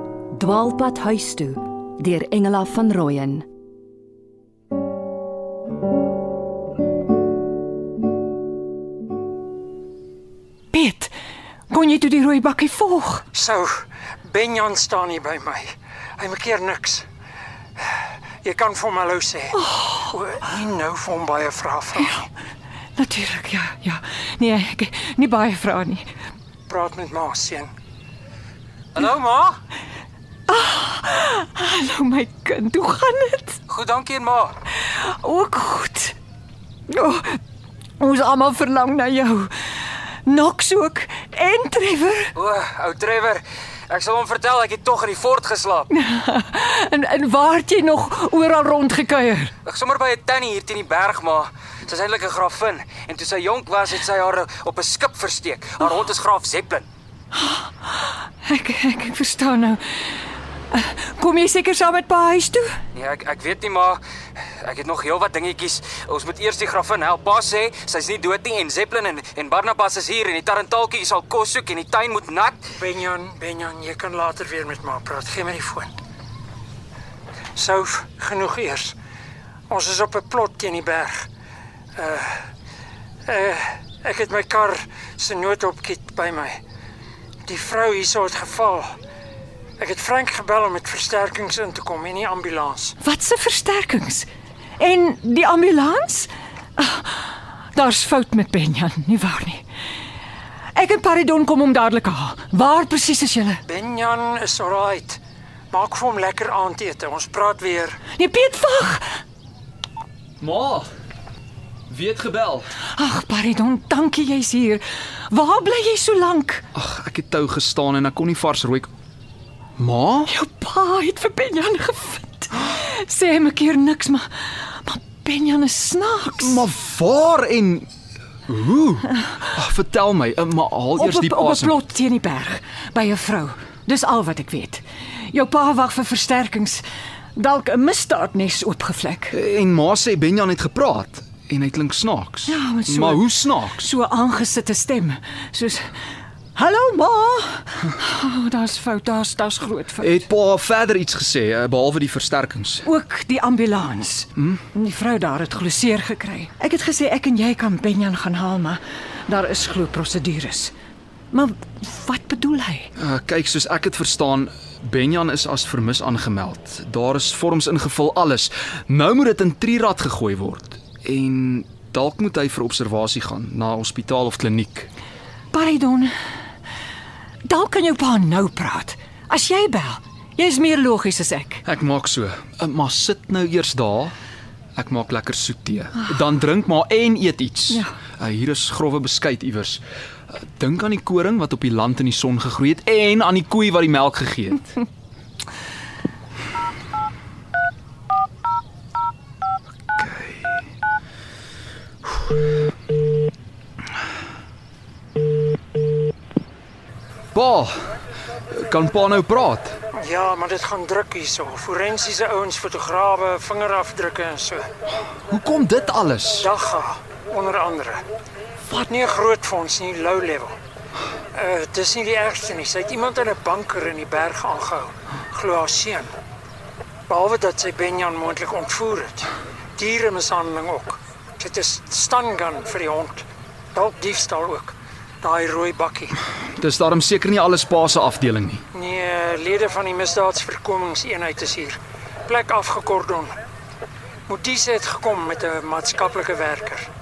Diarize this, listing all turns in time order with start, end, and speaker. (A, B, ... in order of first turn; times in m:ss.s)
0:00.4-0:03.4 A
0:10.7-0:11.1 B
0:11.7-0:13.2 B
0:13.3-0:17.1 C
0:18.4-0:22.2 C
0:19.6-0:20.1 B
0:22.0-0:22.3 B
0:23.0-0:26.1 B
0:26.7-0:27.7 C
0:29.0-0:29.6 C
0:30.5-0:33.6 B
0:33.7-0:34.5 D
0:34.7-0:36.2 B
0:36.9-0:37.4 B
0:38.0-0:42.3 B
0:42.4-0:45.9 D
0:45.9-0:49.5 B
0:49.7-0:56.9 D
0:57.3-1:02.8 B
1:03.0-1:04.0 D
1:04.6-1:12.6 D
1:12.8-1:15.9 C
1:17.6-1:19.0 C
1:19.7-1:21.3 C
1:22.0-1:22.5 C
1:23.3-1:26.6 C
1:27.5-1:28.9 C
1:29.8-1:33.0 C
1:33.0-1:34.3 B
1:34.8-1:39.6 B
1:40.8-1:43.6 B
1:43.7-1:45.2 C
1:45.7-1:48.0 C
1:48.1-1:49.2 B
1:50.4-1:50.9 E
1:51.9-1:52.7 E
1:52.9-1:56.6 B
1:56.8-1:58.9 E
1:59.8-2:00.3 E
2:00.3-2:06.6 B
2:06.4-2:07.9 E
2:08.5-2:11.8 E
2:11.0-2:16.8 B
2:17.4-2:19.4 B
2:19.3-2:23.9 E
2:22.5-2:25.9 B
2:26.6-2:30.2 B
2:30.0-2:32.9 E
2:32.8-2:40.7 B
2:41.3-2:42.9 B
2:43.0-2:54.9 E
2:55.5-2:56.1 B
2:57.5-3:01.6 B
3:01.7-3:04.1 E
3:04.8-3:14.8 E
3:19.9-3:20.6 E
3:27.3-3:28.0 E
3:28.5-3:29.8 E
3:30.0-3:34.7 C
3:35.3-3:36.5 E
3:36.4-3:38.0 C
3:38.7-3:40.5 C
3:41.3-3:46.1 C
3:47.1-3:56.2 C
3:56.6-3:58.6 E
3:58.7-4:03.3 C
4:04.3-4:06.9 C